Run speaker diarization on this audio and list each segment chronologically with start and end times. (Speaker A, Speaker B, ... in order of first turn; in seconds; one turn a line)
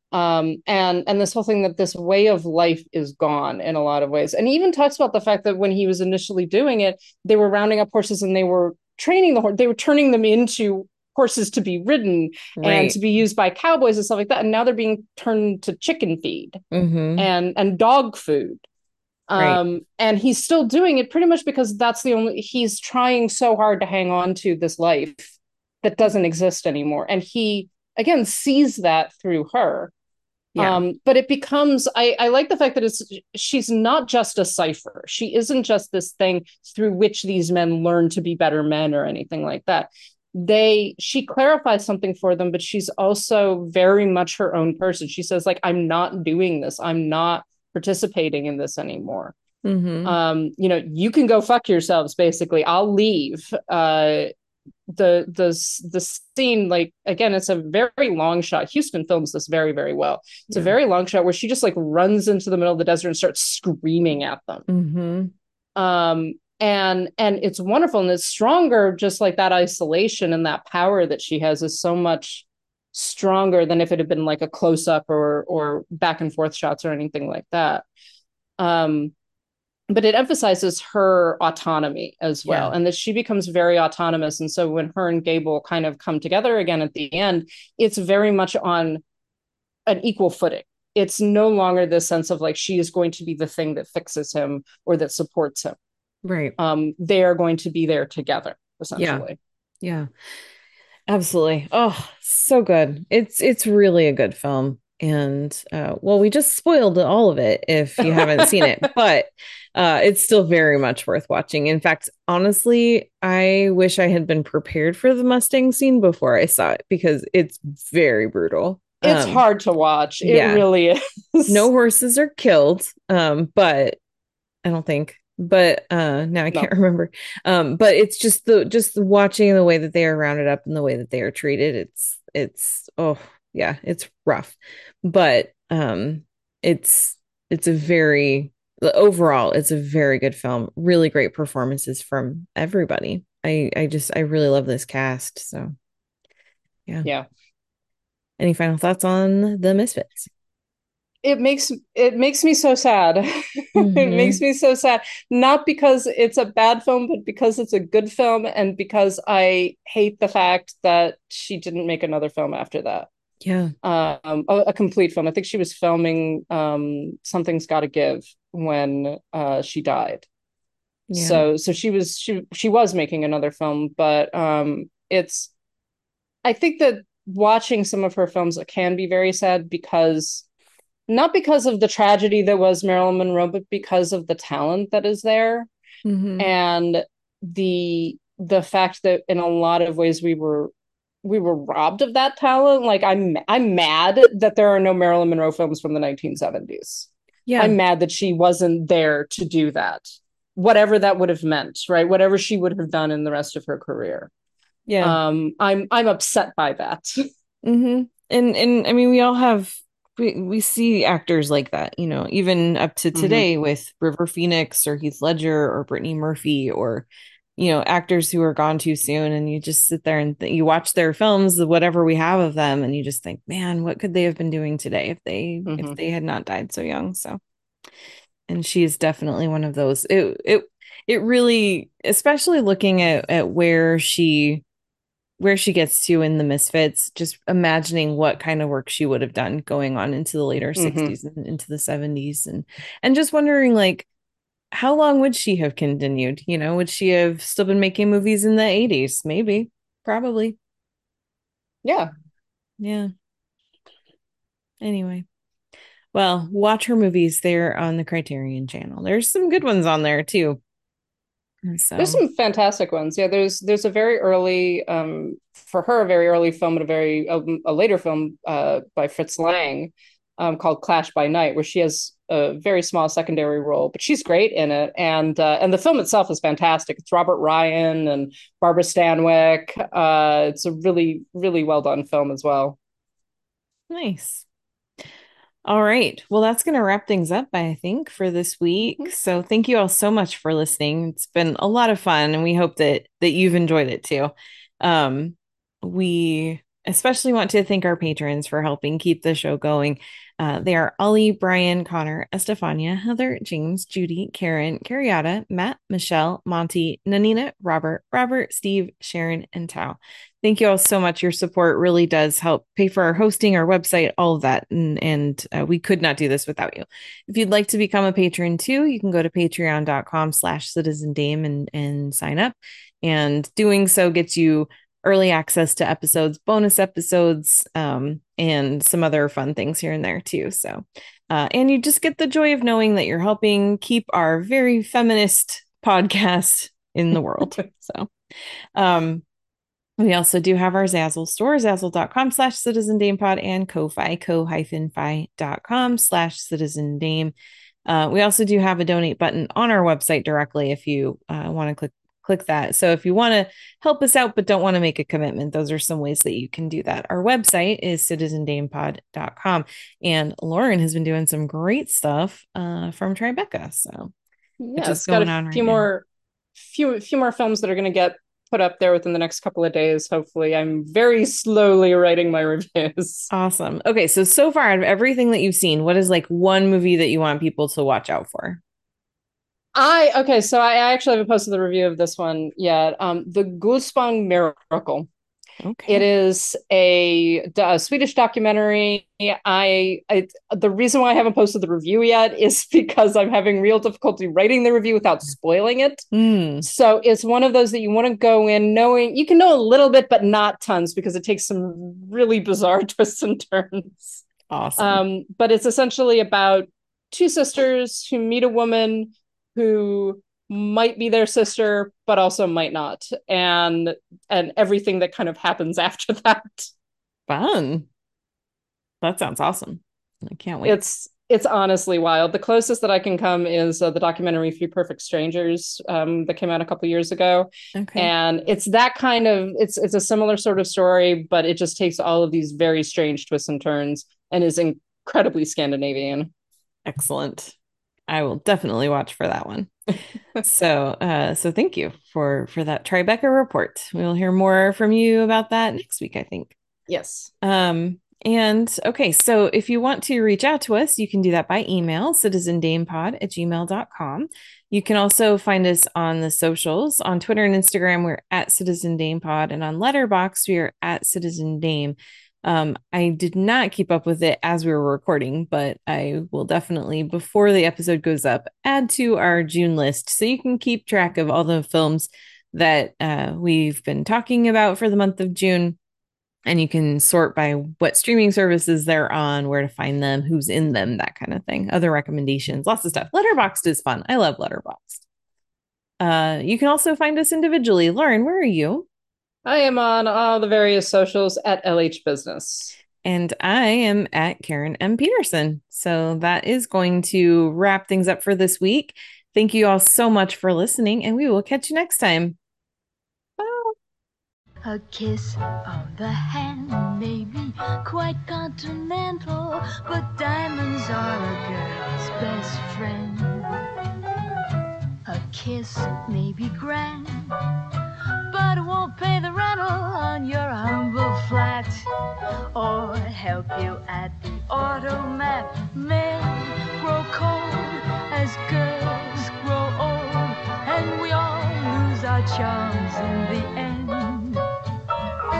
Speaker A: 0.1-16.6
Speaker B: 12.6-13.0
Speaker B: 16.7-17.3
Speaker A: 17.1-18.6
Speaker A: 19.3-29.9
Speaker A: 30.5-49.3
Speaker B: 49.6-50.1
Speaker A: 50.0-54.3
Speaker A: 54.9-64.7
Speaker B: 64.7-65.3
Speaker A: 65.8-77.8
Speaker A: 78.6-79.1
Speaker A: 79.9-89.0
Speaker B: 82.4-82.7
Speaker A: 89.9-95.8
Speaker B: 96.2-96.5
Speaker A: 96.6-99.4
Speaker B: 99.0-99.2
Speaker B: 99.8-100.1
Speaker B: 101.1-119.4
Speaker A: 108.0-108.8
Speaker A: 119.0-121.7
Speaker B: 120.2-120.6
Speaker B: 121.5-124.0
Speaker B: 124.6-145.7
Speaker B: 148.4-150.3
Speaker A: 151.2-163.1
Speaker B: 153.8-154.4
Speaker B: 163.4-163.7
Speaker A: 163.8-170.2
Speaker B: 171.1-171.4
Speaker A: 171.1-175.5
Speaker A: 176.4-180.4
Speaker A: 181.1-185.7
Speaker B: 186.0-186.5
Speaker A: 186.4-190.7
Speaker A: 191.2-204.3
Speaker B: 197.5-197.8
Speaker B: 204.9-205.2
Speaker A: 205.0-207.3
Speaker B: 207.6-227.4
Speaker A: 213.1-213.4
Speaker A: 225.7-225.9
Speaker B: 228.5-234.6
Speaker B: 235.4-244.1
Speaker A: 240.8-241.1
Speaker B: 244.7-250.6
Speaker A: 251.8-252.1
Speaker B: 252.8-253.1
Speaker B: 254.8-255.2
Speaker B: 256.1-260.6
Speaker B: 261.6-262.2
Speaker A: 262.0-282.8
Speaker B: 283.9-284.4
Speaker B: 285.6-338.1
Speaker B: 338.7-339.2
Speaker B: 340.0-347.3
Speaker B: 347.9-364.1
Speaker A: 364.6-366.0
Speaker B: 364.8-365.9
Speaker A: 366.6-373.3
Speaker B: 373.3-378.6
Speaker A: 379.7-385.1
Speaker B: 385.6-386.0
Speaker A: 385.9-396.0
Speaker B: 396.1-396.7
Speaker A: 396.6-404.0
Speaker B: 404.3-405.0
Speaker A: 404.8-416.7
Speaker B: 417.3-417.9
Speaker B: 419.0-420.8
Speaker A: 420.6-436.3
Speaker B: 427.7-428.1
Speaker B: 436.8-437.5
Speaker B: 438.1-439.7
Speaker B: 440.4-446.6
Speaker A: 446.9-447.3
Speaker B: 447.4-475.8
Speaker B: 476.4-485.0
Speaker B: 486.0-488.9
Speaker A: 489.4-492.8
Speaker B: 493.0-502.4
Speaker A: 503.4-503.7
Speaker C: 504.6-513.5
Speaker C: 515.0-517.3
Speaker C: 518.3-521.8
Speaker C: 522.5-534.4